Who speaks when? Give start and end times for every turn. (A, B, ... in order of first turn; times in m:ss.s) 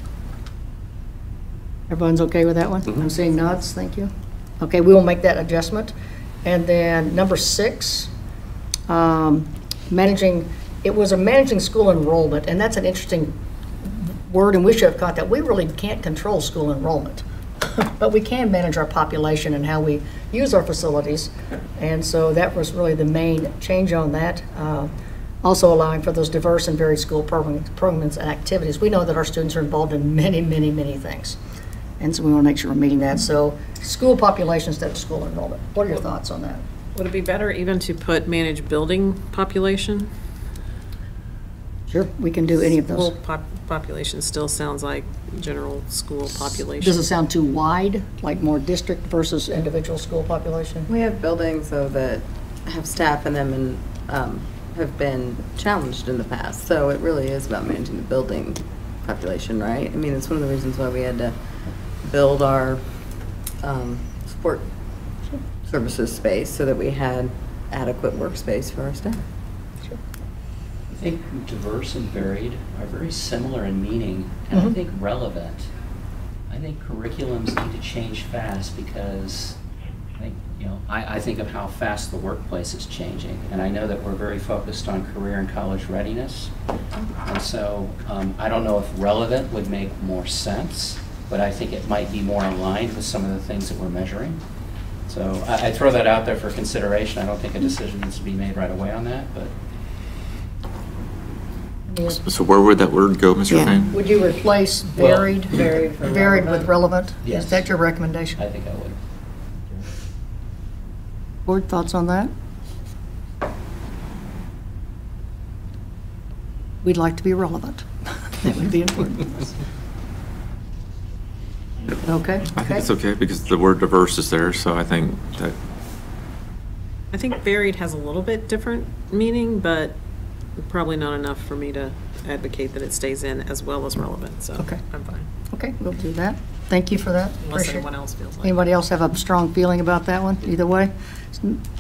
0:01.9-0:08.1 A
0:08.9-0:24.9 A
0:25.4-0:31.4 A
0:32.0-0:36.6 A
0:37.0-0:40.1 B
0:41.9-0:43.1 A
0:42.6-0:47.0 B
0:46.4-0:50.9 A
0:50.9-1:01.4 C
1:02.0-1:04.7 C
1:05.5-1:09.2 C
1:10.9-1:15.7 D
1:14.5-1:14.8 A
1:16.5-1:19.6 D
1:20.2-1:26.5 D
1:27.2-1:34.5 D
1:35.0-1:39.6 D
1:41.9-1:42.2 A
1:42.1-1:43.9 E
1:43.9-1:48.4 A
1:45.0-1:46.8 C
1:47.2-1:47.8 D
1:48.4-1:49.0 D
1:51.5-1:52.3 A
1:56.8-1:59.6 A
2:02.0-2:02.8 A
2:02.5-2:05.6 E
2:07.1-2:10.0 B
2:10.6-2:15.3 B
2:15.5-2:17.9 A
2:17.4-2:18.6 B
2:18.4-2:21.6 A